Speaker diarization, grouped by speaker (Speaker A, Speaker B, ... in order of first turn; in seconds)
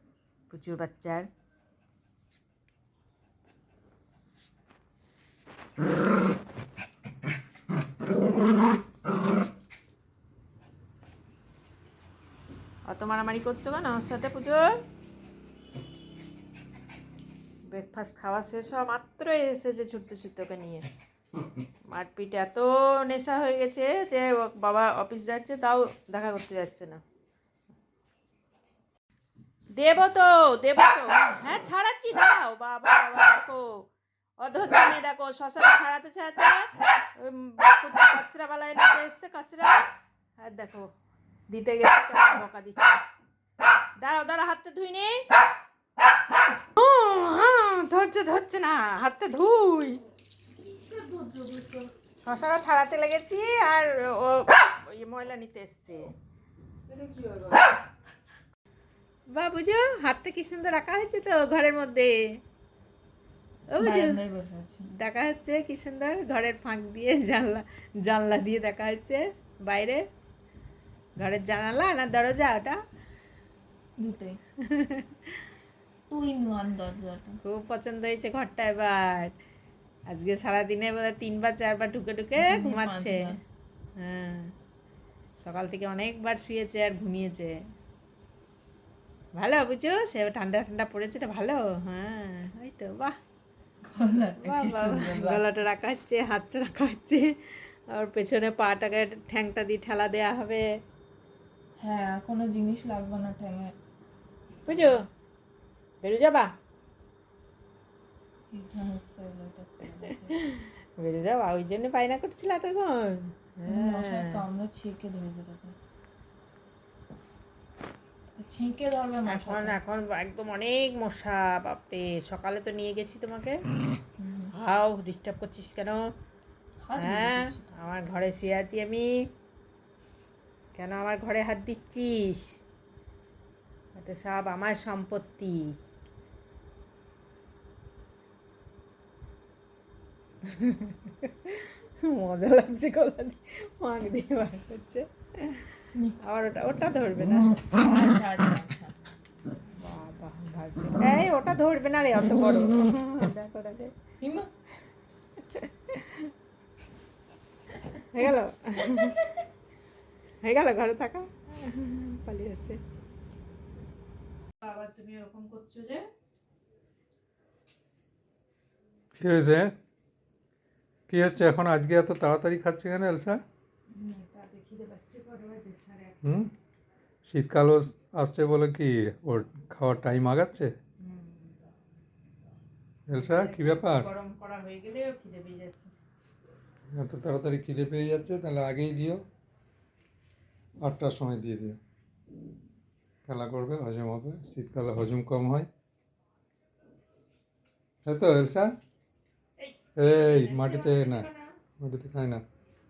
Speaker A: 0.5-1.3, 12.9-14.7, 17.7-20.9, 21.9-27.0, 29.7-39.9, 40.4-40.9, 41.5-43.0, 44.0-45.2, 46.7-50.0, 52.2-56.1, 59.3-62.2, 63.7-64.2, 65.0-70.0, 71.2-72.8, 74.6-75.4, 77.4-79.3, 80.1-83.3, 84.0-84.5, 85.4-87.6, 89.3-93.2, 94.4-100.6, 104.7-105.0, 106.0-106.5, 110.4-114.4, 119.3-123.6, 124.5-126.1, 127.0-129.2, 130.8-132.5, 133.9-135.7, 140.4-148.2, 149.8-153.9, 155.4-156.3, 158.1-159.3, 160.4-162.8, 164.6-166.0, 173.9-176.2, 181.0-181.7, 183.1-185.9, 199.6-201.5
Speaker B: 50.7-51.9, 56.9-57.7, 63.8-64.9, 74.0-74.4, 76.1-77.4, 82.4-83.4, 93.9-95.4, 101.8-103.7, 108.5-110.4, 113.7-115.8, 118.3-119.8, 124.2-124.5, 126.8-127.7, 147.7-148.9, 154.2-154.5
Speaker C: 169.2-169.7, 171.1-173.4, 176.2-176.5, 177.3-180.7, 183.1-184.1, 186.9-189.2, 190.8-191.8, 193.3-195.7, 198.1-198.7, 200.0-201.3, 201.8-202.4